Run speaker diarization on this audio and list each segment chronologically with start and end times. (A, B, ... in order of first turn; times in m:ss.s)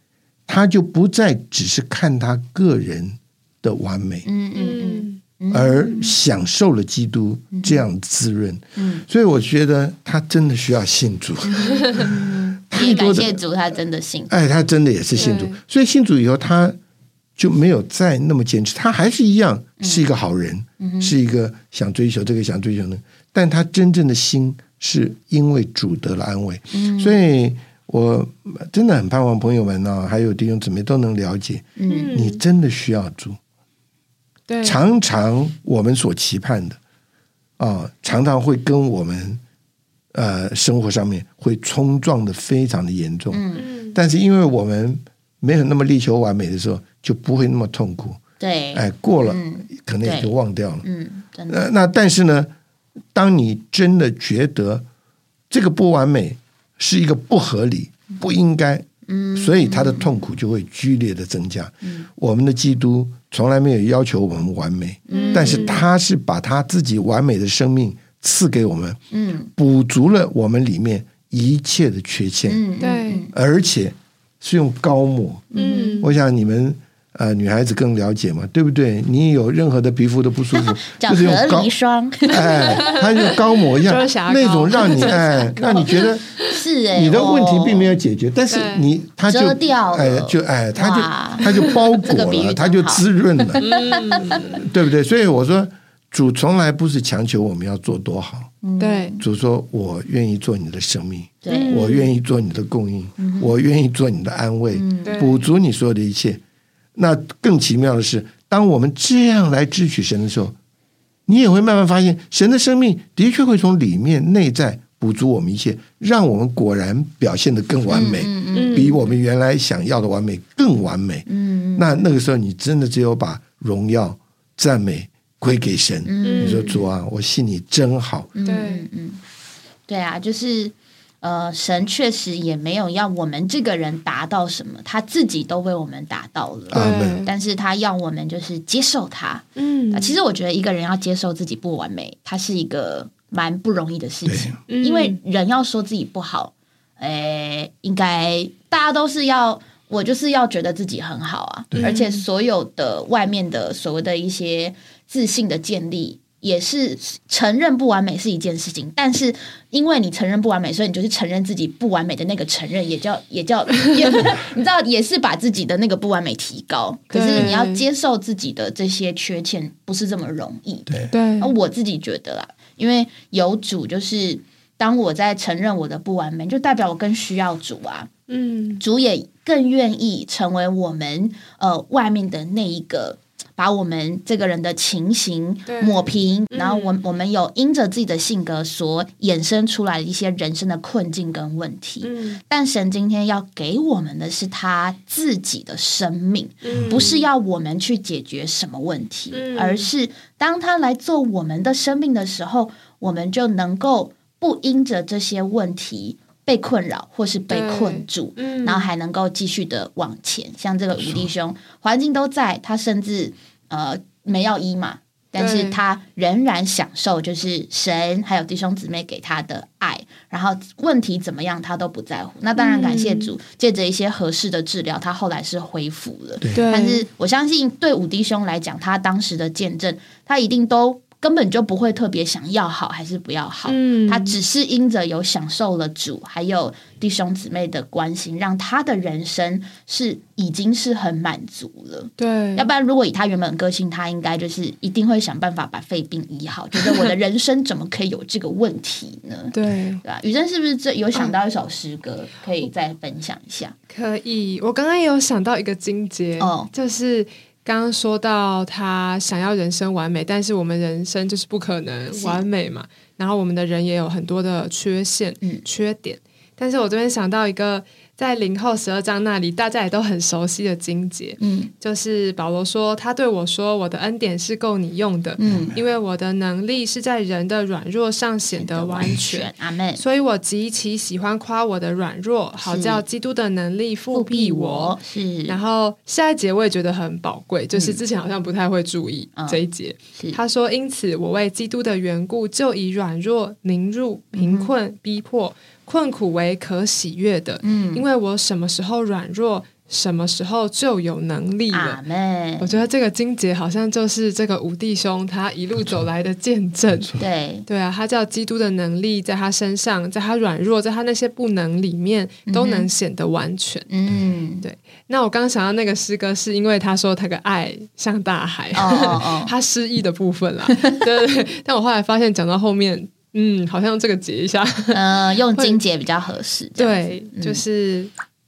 0:00.5-0:04.3 A
0:04.3-0:06.2 B
0:04.5-0:05.2 C
0:05.5-0:13.4 A
0:07.5-0:07.9 B
0:08.8-0:09.0 B
0:11.6-0:12.1 C
0:11.8-0:14.3 B
0:14.3-0:16.8 A
0:15.2-0:15.6 C
0:17.4-0:33.4 A
0:19.8-0:20.1 B
0:20.8-0:21.2 B
0:26.7-0:27.2 B
0:31.8-0:32.2 B
0:31.9-0:32.4 C
0:34.5-0:34.8 C
0:34.6-0:36.8 A
0:37.6-0:39.4 A
0:40.1-0:48.2 A
0:43.3-0:43.7 B
0:43.6-0:44.0 C
0:48.4-0:51.7 B
0:48.7-0:50.8 A
0:51.5-0:52.5 A
0:53.1-0:54.9 A
0:55.5-1:09.0 A
0:59.1-1:00.2 B
1:05.1-1:05.8 B
1:05.1-1:05.9 C
1:09.1-1:09.5 B
1:09.6-1:12.6 A
1:12.5-1:13.3 B
1:12.8-1:13.2 C
1:13.3-1:21.7 A
1:15.5-1:16.1 B
1:15.6-1:16.1 C
1:20.5-1:23.0 B
1:22.3-1:26.4 A
1:22.8-1:26.6 C
1:24.8-1:25.8 B
1:26.5-1:28.0 B
1:26.9-1:33.6 A
1:28.5-1:28.9 C
1:29.3-1:33.0 B
1:33.6-1:34.6 C
1:33.6-1:34.6 B
1:34.5-1:38.5 A
1:38.6-1:39.2 B
1:38.8-1:39.2 C
1:39.2-1:46.4 A
1:41.4-1:42.0 B
1:41.5-1:42.1 C
1:43.2-1:43.6 B
1:44.7-1:45.4 B
1:45.0-1:45.4 C
1:47.0-1:50.6 A
1:51.3-2:08.3 A
1:57.9-1:59.0 B
1:58.5-1:59.0 C
2:01.3-2:02.0 B
2:06.1-2:06.8 B
2:06.2-2:06.8 C
2:08.4-2:09.2 B
2:08.4-2:08.9 C
2:09.9-2:58.1 B
2:16.7-2:17.3 A
2:16.7-2:17.3 C
2:19.6-2:20.2 C
2:24.3-2:24.6 A
2:24.7-2:25.2 C
2:31.8-2:32.2 C
2:47.1-2:47.9 C
2:51.1-2:51.6 C
2:58.3-2:58.8 C
2:58.8-4:13.8 B
3:05.7-3:07.0 C
3:12.0-3:12.4 C
3:16.6-3:17.2 C
3:16.7-3:17.1 A
3:19.3-3:19.9 C
3:27.5-3:28.9 C
3:31.0-3:31.3 A
3:35.4-3:35.8 C
3:42.6-3:43.4 C
3:46.5-3:47.1 C
3:53.7-3:54.4 C
4:02.2-4:02.7 C
4:09.5-4:10.0 C
4:13.9-5:02.0 C
4:16.4-4:16.7 B
4:22.1-4:22.4 B
4:31.4-4:31.7 B
4:35.4-4:35.8 B
4:35.4-4:35.8 A
4:38.6-4:40.0 B
4:42.6-4:43.0 B
4:44.1-4:45.6 B
4:47.7-4:48.0 B
4:49.4-4:49.6 B
4:54.3-4:54.7 B
4:57.6-4:58.1 B
5:01.7-5:02.8 B
5:02.6-5:13.9 C
5:05.8-5:06.1 A
5:06.9-5:07.2 A
5:07.2-5:07.7 B
5:12.5-5:12.9 B
5:13.9-5:14.7 B
5:14.6-5:25.8 C
5:18.8-5:19.6 B
5:20.7-5:21.0 B
5:24.9-5:27.6 B
5:26.8-5:28.1 C